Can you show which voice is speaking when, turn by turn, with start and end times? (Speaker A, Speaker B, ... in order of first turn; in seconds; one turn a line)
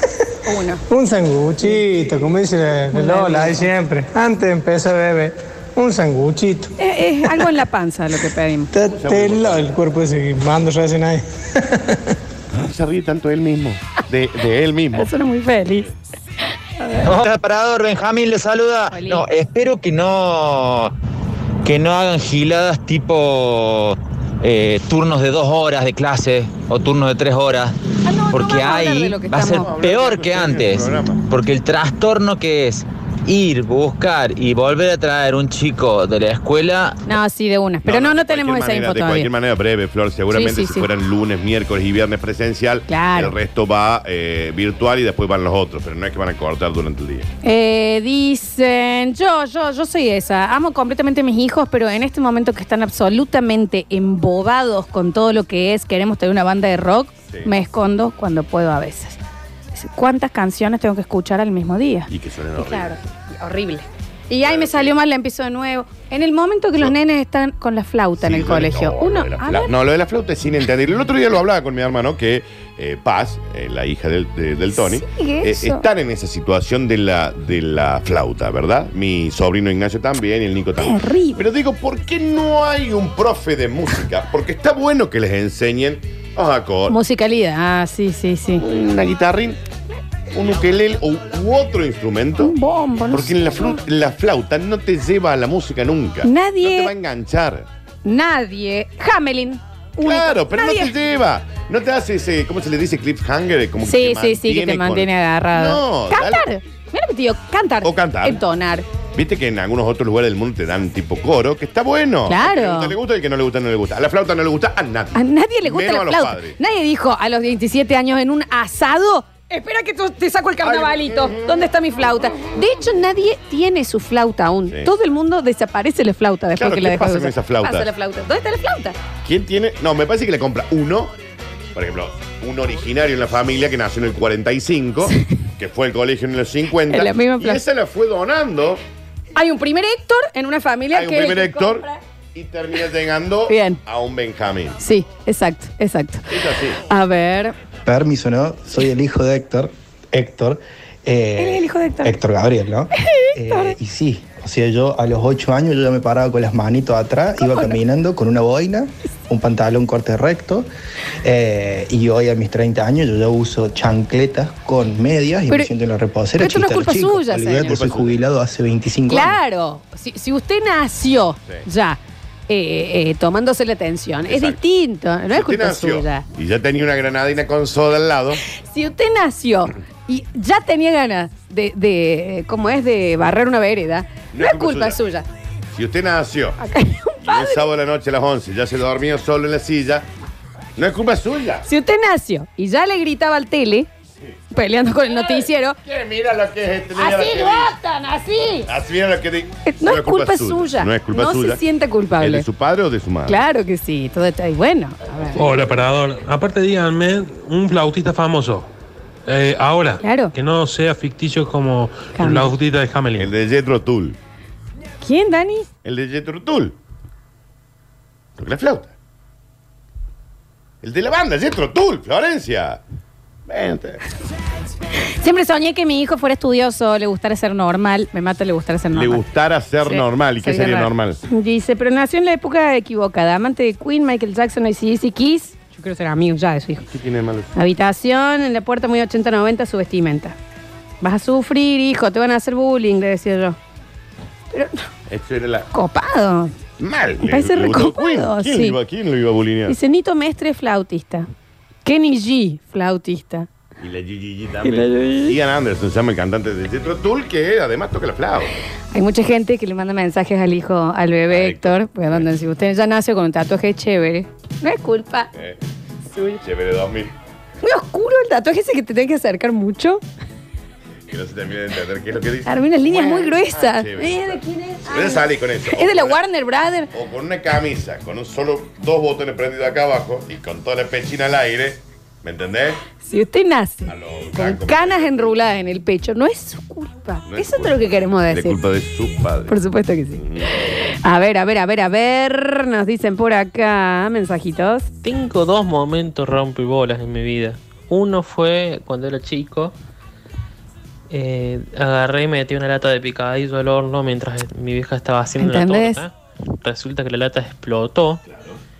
Speaker A: 0.5-0.8
Speaker B: 0.9-7.5
Speaker A: 2.9-3.7
Speaker A: 6.8-8.7
Speaker B: 8.7-12.0
Speaker C: 8.8-9.8
Speaker C: 12.5-15.1
Speaker A: 14.9-15.9
Speaker A: 16.8-17.1
Speaker D: 17.0-20.9
Speaker A: 18.9-19.2
Speaker D: 21.6-27.7
Speaker A: 28.0-29.7
Speaker D: 28.3-37.0
Speaker C: 29.5-31.2
Speaker A: 37.0-39.3
Speaker C: 37.8-47.3
Speaker A: 40.3-40.9
Speaker A: 42.9-43.4
Speaker A: 47.4-59.2
Speaker A: 59.7-69.7
Speaker C: 62.1-63.0
Speaker C: 64.4-65.0
Speaker C: 68.2-87.0
Speaker A: 74.7-75.8
Speaker A: 80.8-81.4
Speaker A: 86.9-88.6
Speaker C: 88.5-89.6
Speaker C: 90.3-92.5
Speaker A: 92.4-93.8
Speaker C: 93.1-97.7
Speaker A: 96.2-96.9
Speaker A: 98.0-100.9
Speaker C: 100.0-106.5
Speaker A: 103.8-108.8
Speaker C: 107.8-108.4
Speaker C: 109.1-116.6
Speaker A: 112.3-113.0
Speaker A: 115.1-129.0
Speaker C: 120.6-122.5
Speaker C: 124.7-124.9
Speaker C: 126.5-127.9
Speaker C: 129.2-131.1
Speaker C: 131.7-138.8
Speaker A: 136.9-137.6
Speaker A: 139.3-142.0
Speaker C: 140.9-144.8
Speaker A: 143.5-143.8
Speaker A: 144.8-146.3
Speaker C: 146.3-146.8
Speaker A: 146.8-147.5
Speaker E: 147.8-160.7
Speaker A: 151.4-152.2
Speaker A: 153.0-153.7
Speaker A: 157.4-157.8
Speaker E: 161.2-169.4
Speaker A: 166.4-167.7
Speaker C: 167.5-168.2
Speaker A: 169.1-176.2
Speaker C: 174.3-174.6
Speaker C: 175.3-178.4
Speaker A: 178.5-185.3
Speaker C: 184.3-185.0
Speaker C: 185.7-186.6
Speaker A: 186.6-187.7
Speaker C: 187.2-190.1
Speaker C: 190.8-191.7
Speaker A: 191.7-193.9
Speaker A: 194.5-195.8
Speaker C: 195.0-197.8
Speaker A: 196.9-198.7
Speaker C: 198.7-201.6
Speaker A: 199.7-202.4
Speaker C: 202.2-203.4
Speaker A: 203.3-205.5
Speaker F: 205.3-208.7
Speaker F: 209.2-213.3
Speaker A: 210.0-210.3
Speaker A: 212.1-212.5
Speaker C: 213.2-214.2
Speaker A: 215.0-215.7
Speaker C: 215.8-216.8
Speaker C: 218.4-218.9
Speaker C: 220.8-222.8
Speaker C: 223.5-224.0
Speaker A: 225.2-229.2
Speaker C: 228.9-231.2
Speaker A: 229.8-236.8
Speaker C: 236.8-237.5
Speaker A: 237.5-240.3
Speaker A: 241.0-243.6
Speaker A: 244.5-244.8
Speaker C: 245.1-245.7
Speaker A: 245.7-246.5
Speaker C: 246.8-249.8
Speaker A: 247.2-248.8
Speaker A: 249.7-251.3
Speaker A: 251.8-253.5
Speaker C: 253.8-258.6
Speaker A: 254.6-255.3
Speaker A: 258.9-265.3
Speaker C: 261.3-262.3
Speaker C: 265.3-265.6
Speaker A: 266.1-266.4
Speaker C: 266.4-267.1
Speaker A: 267.6-270.0
Speaker C: 271.1-276.2
Speaker A: 272.4-276.9
Speaker C: 276.9-282.8
Speaker A: 283.0-288.6
Speaker C: 283.9-285.4
Speaker C: 287.3-289.6
Speaker A: 289.5-290.2
Speaker C: 290.1-290.6
Speaker A: 290.9-294.9
Speaker G: 295.0-299.8
Speaker G: 301.1-308.2
Speaker A: 305.4-306.0
Speaker C: 308.3-308.6